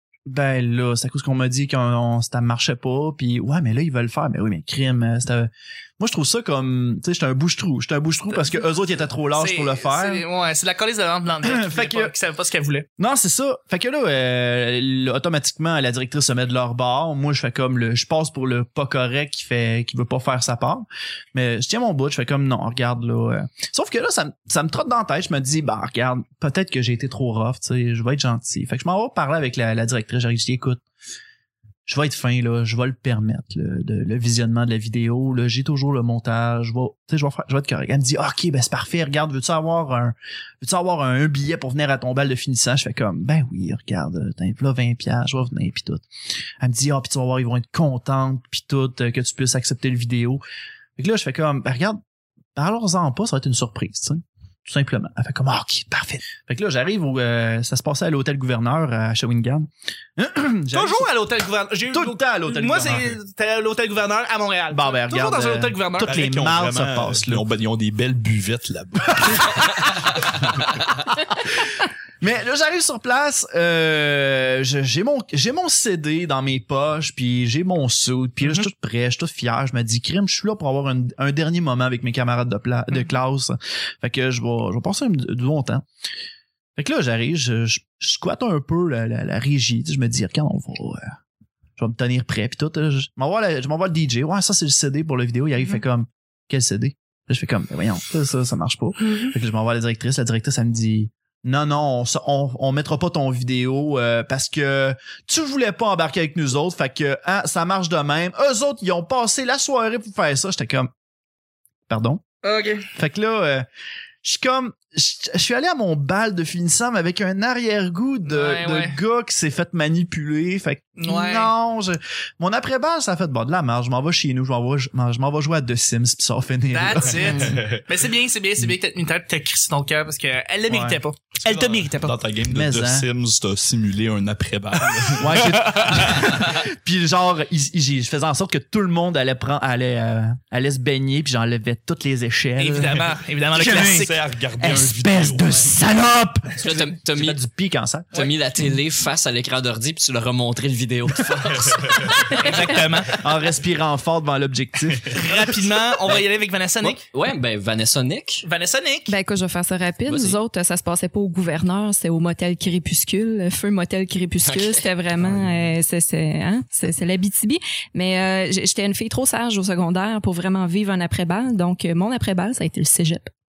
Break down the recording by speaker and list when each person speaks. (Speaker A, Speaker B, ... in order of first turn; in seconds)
Speaker A: 0.3-10.2, 11.4-12.1, 13.0-30.8, 31.9-46.0, 46.6-50.4, 51.0-52.0, 52.5-61.1, 61.9-63.2, 64.7-67.4, 69.2-69.6, 72.2-85.8, 86.8-91.1, 91.8-110.9, 111.9-112.2, 112.9-113.7, 114.2-127.6, 130.7-131.0, 132.5-133.1, 135.2-148.2, 153.1-155.4
Speaker B: 8.3-8.6, 9.3-12.9, 60.7-66.1, 112.4-112.9, 118.3-119.0, 121.0-121.5, 126.7-132.1, 142.6-144.2, 152.3-153.1, 155.1-157.0, 158.4-159.1
Speaker C: 66.0-69.9, 127.3-127.8, 131.4-136.4, 143.7-145.6
Speaker D: 146.6-147.4, 148.1-152.8, 156.8-158.5, 160.1-160.4, 164.4-164.9
Speaker E: 159.1-173.3